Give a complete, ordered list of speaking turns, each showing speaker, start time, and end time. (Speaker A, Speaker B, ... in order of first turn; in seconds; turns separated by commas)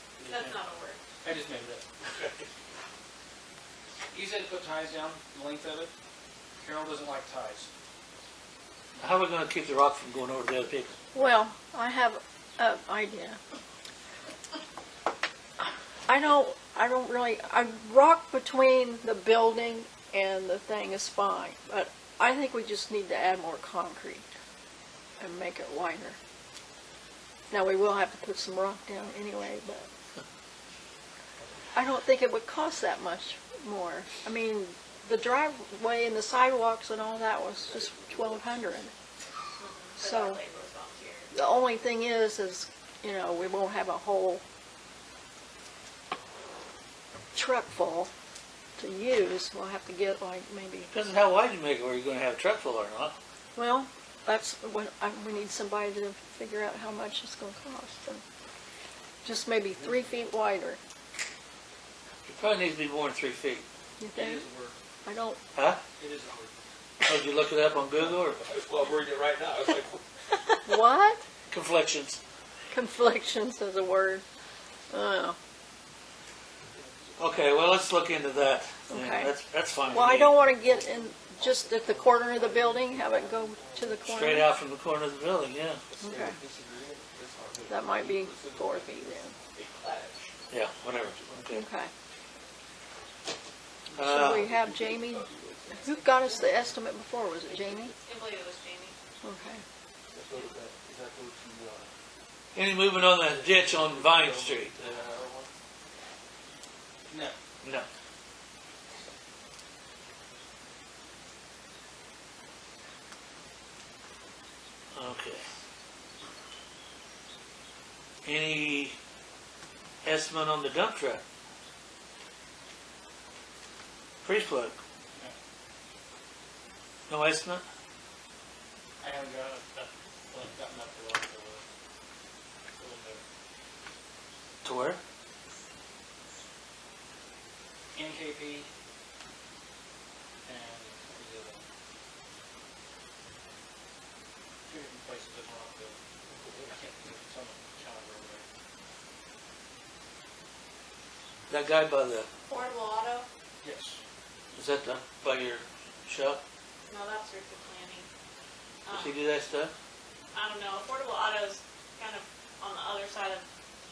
Speaker A: 0.2-0.5, Speaker B: 0.2-1.0, Speaker A: 1.2-1.8, Speaker C: 2.1-2.5, Speaker A: 4.1-5.9, Speaker A: 6.6-7.7, Speaker D: 9.0-10.9, Speaker E: 11.1-13.4, Speaker E: 16.1-24.2, Speaker E: 25.2-26.2, Speaker E: 27.5-29.9, Speaker E: 31.7-38.9, Speaker C: 37.8-38.4, Speaker B: 39.6-41.3, Speaker E: 40.0-40.4, Speaker E: 41.3-44.4, Speaker E: 47.3-48.1, Speaker E: 48.8-50.9, Speaker D: 50.9-53.1, Speaker E: 53.5-58.2, Speaker E: 59.2-60.8, Speaker D: 62.2-63.6, Speaker E: 64.0-64.4, Speaker A: 64.1-64.8, Speaker E: 65.0-65.4, Speaker D: 65.5-65.8, Speaker A: 66.0-66.5, Speaker D: 67.0-68.4, Speaker A: 68.0-68.3, Speaker C: 68.3-70.0, Speaker E: 70.6-71.2, Speaker D: 71.5-72.2, Speaker E: 72.7-74.2, Speaker E: 74.9-75.4, Speaker C: 76.7-77.5, Speaker D: 77.2-80.4, Speaker E: 78.9-79.3, Speaker E: 79.9-84.5, Speaker C: 80.4-84.1, Speaker D: 84.1-85.8, Speaker C: 85.8-91.5, Speaker E: 86.0-86.4, Speaker E: 87.7-89.3, Speaker D: 90.5-91.7, Speaker E: 91.5-91.9, Speaker E: 93.9-97.9, Speaker D: 94.0-94.5, Speaker C: 94.2-96.8, Speaker C: 97.6-97.9, Speaker B: 98.0-98.9, Speaker E: 99.2-99.6, Speaker C: 100.1-101.9, Speaker D: 102.5-104.8, Speaker C: 102.9-105.5, Speaker A: 107.1-107.3, Speaker D: 107.6-107.9, Speaker D: 114.9-115.4, Speaker D: 118.2-119.0, Speaker D: 120.0-121.2, Speaker D: 124.2-124.8, Speaker D: 127.1-127.6, Speaker A: 129.0-131.6, Speaker A: 132.8-133.2, Speaker D: 134.6-135.0, Speaker A: 137.9-138.7, Speaker A: 140.4-141.6, Speaker A: 144.7-146.0, Speaker C: 146.4-146.8, Speaker A: 146.6-148.5, Speaker D: 151.5-152.3, Speaker B: 152.5-153.3, Speaker A: 153.6-154.0, Speaker D: 154.5-156.4, Speaker B: 156.9-158.1, Speaker B: 158.8-159.1, Speaker D: 158.9-159.7, Speaker B: 160.3-163.4